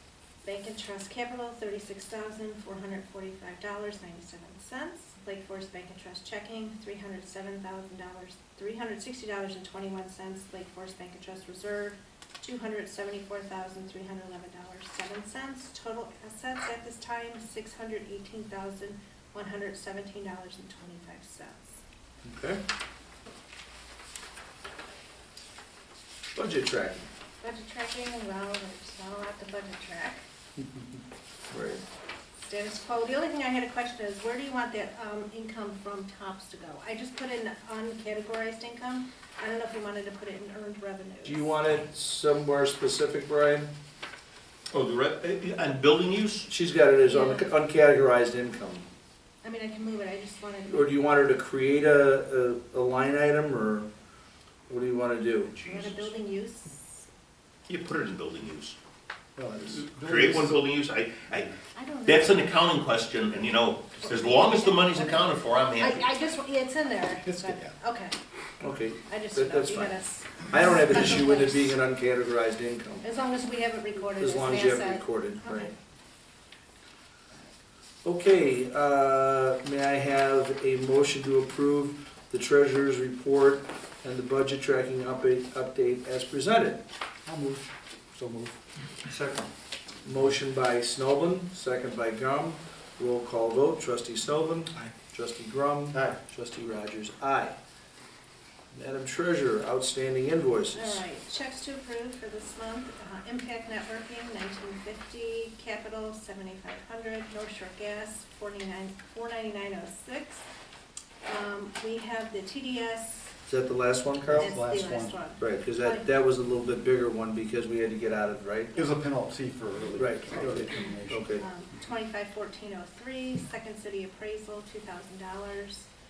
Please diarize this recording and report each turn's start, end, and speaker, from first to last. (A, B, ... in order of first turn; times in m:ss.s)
0:00.4-0:21.8 A
0:22.2-0:22.6 B
0:26.3-0:27.1 B
0:27.4-0:30.2 A
0:31.5-0:31.8 B
0:32.5-0:41.6 A
0:41.2-0:43.7 B
0:44.7-0:46.5 C
0:46.5-0:48.9 B
0:47.0-0:47.5 A
0:49.4-0:51.4 A
0:50.7-0:53.9 B
0:54.7-0:55.5 B
0:55.5-0:56.2 C
0:55.6-0:57.1 A
0:57.7-0:58.8 C
0:59.4-1:00.7 D
0:59.7-1:06.0 C
1:01.3-1:01.6 D
1:01.7-1:02.7 A
1:04.0-1:08.1 A
1:07.2-1:07.7 D
1:08.6-1:13.0 B
1:09.1-1:11.8 A
1:13.0-1:15.7 A
1:14.2-1:15.7 B
1:18.0-1:26.8 B
1:27.2-1:28.6 D
1:29.1-1:29.4 D
1:30.0-1:37.6 B
1:38.7-1:41.0 B
1:40.7-1:50.4 A
1:51.2-1:53.3 A
1:53.5-1:54.5 B
1:54.3-1:55.2 D
1:54.3-1:56.0 A
1:55.4-1:58.8 B
1:58.7-2:01.4 D
2:00.0-2:01.4 B
2:01.4-2:05.9 A